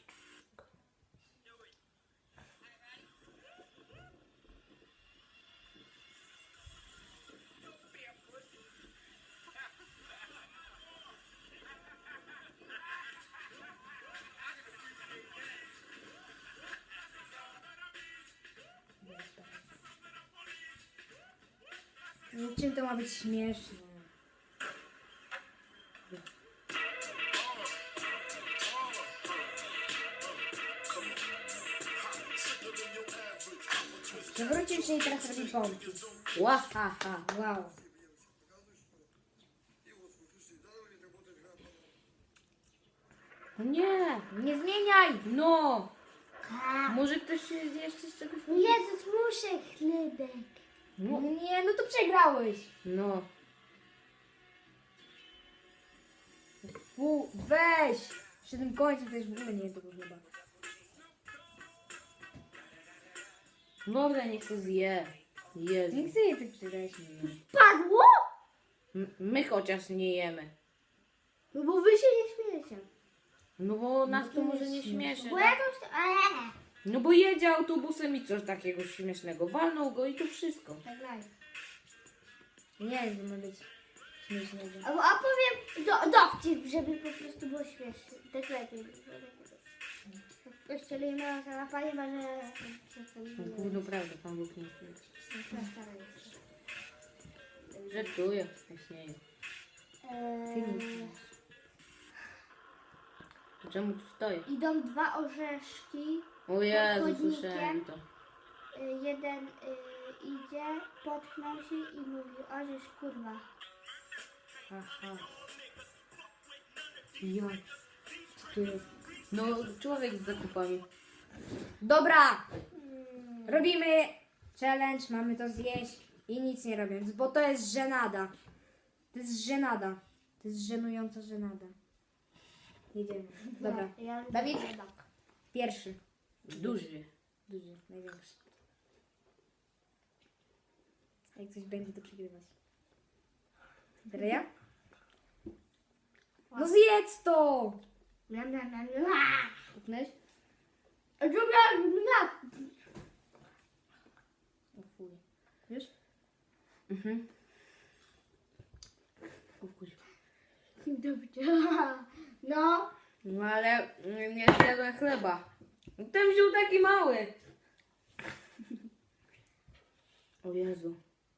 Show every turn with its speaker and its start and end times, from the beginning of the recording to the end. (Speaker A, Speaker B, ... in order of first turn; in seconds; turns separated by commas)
Speaker A: 19.0-19.7, Speaker A: 22.3-24.1, Speaker A: 34.1-36.0, Speaker B: 36.4-37.1, Speaker A: 37.0-37.7, Speaker B: 43.6-44.3, Speaker A: 44.3-45.2, Speaker B: 45.2-45.9, Speaker C: 46.4-47.0, Speaker B: 46.9-48.8, Speaker C: 48.5-50.6, Speaker B: 51.0-51.3, Speaker A: 51.1-52.7, Speaker B: 52.8-53.3, Speaker A: 56.6-60.2, Speaker B: 63.9-66.1, Speaker A: 65.9-67.4, Speaker C: 67.4-68.2, Speaker B: 68.9-70.5, Speaker C: 71.5-72.9, Speaker B: 73.6-75.5, Speaker A: 74.1-75.2, Speaker C: 75.3-76.6, Speaker B: 76.8-80.8, Speaker C: 80.8-81.3, Speaker A: 82.8-83.7, Speaker A: 84.2-84.9, Speaker C: 84.8-89.6, Speaker C: 90.5-93.8, Speaker B: 93.4-95.0, Speaker C: 95.3-96.4, Speaker B: 97.9-99.2, Speaker C: 100.0-101.2, Speaker A: 100.5-101.2, Speaker B: 103.6-104.5, Speaker C: 104.5-107.8, Speaker B: 106.5-108.0, Speaker C: 108.7-113.5, Speaker A: 114.7-115.3, Speaker A: 117.2-117.6, Speaker A: 118.4-118.9, Speaker B: 119.3-120.8, Speaker A: 121.8-122.5, Speaker C: 122.9-123.4, Speaker A: 123.5-128.3, Speaker A: 129.1-131.7, Speaker A: 132.9-134.7, Speaker C: 133.5-135.0, Speaker A: 135.5-136.0, Speaker B: 136.5-137.1, Speaker A: 136.5-136.9, Speaker A: 137.5-138.4, Speaker A: 141.3-142.5, Speaker A: 144.1-144.5, Speaker C: 144.1-144.4, Speaker A: 146.6-147.8, Speaker C: 148.3-149.7, Speaker A: 149.8-150.1, Speaker C: 151.2-152.7, Speaker A: 154.8-155.9, Speaker B: 156.9-157.2, Speaker B: 159.6-160.0, Speaker C: 160.8-162.9, Speaker B: 163.2-165.5, Speaker B: 166.0-167.3, Speaker B: 170.4-171.0